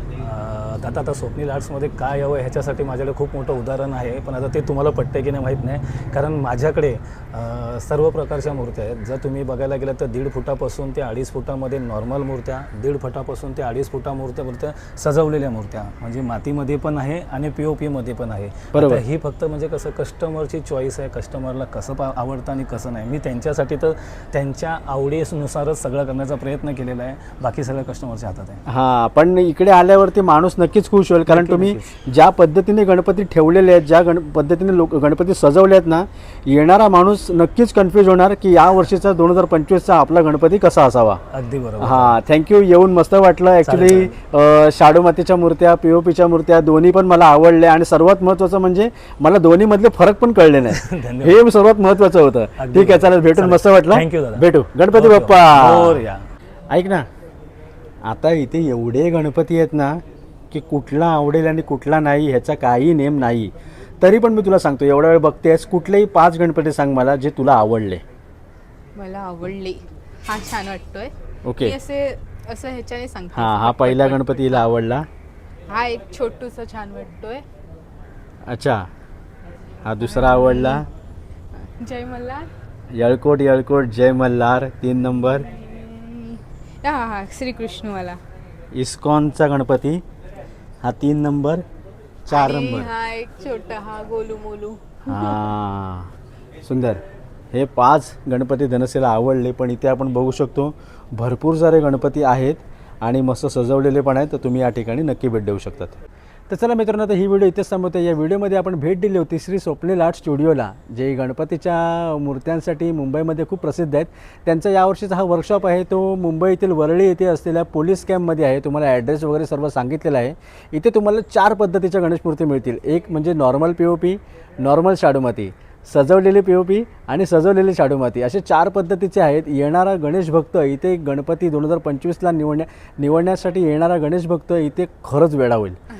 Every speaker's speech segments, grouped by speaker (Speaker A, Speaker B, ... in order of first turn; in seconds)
Speaker A: 0.2-28.6, 31.3-31.9, 41.3-42.2, 43.6-44.1, 50.7-51.4, 52.6-56.3
Speaker B: 18.7-19.0, 28.7-41.2, 41.8-56.0, 56.7-57.0, 58.0-60.0, 60.5-68.0, 71.4-71.8, 73.3-75.1, 78.5-78.8, 79.8-80.8, 82.9-85.5, 88.7-90.0, 90.8-91.6, 92.2-92.9, 95.1-96.1, 96.6-97.0, 97.5-135.8
Speaker C: 69.0-74.6, 75.7-77.4, 80.0-80.9, 81.6-82.5, 85.2-88.2, 92.3-95.4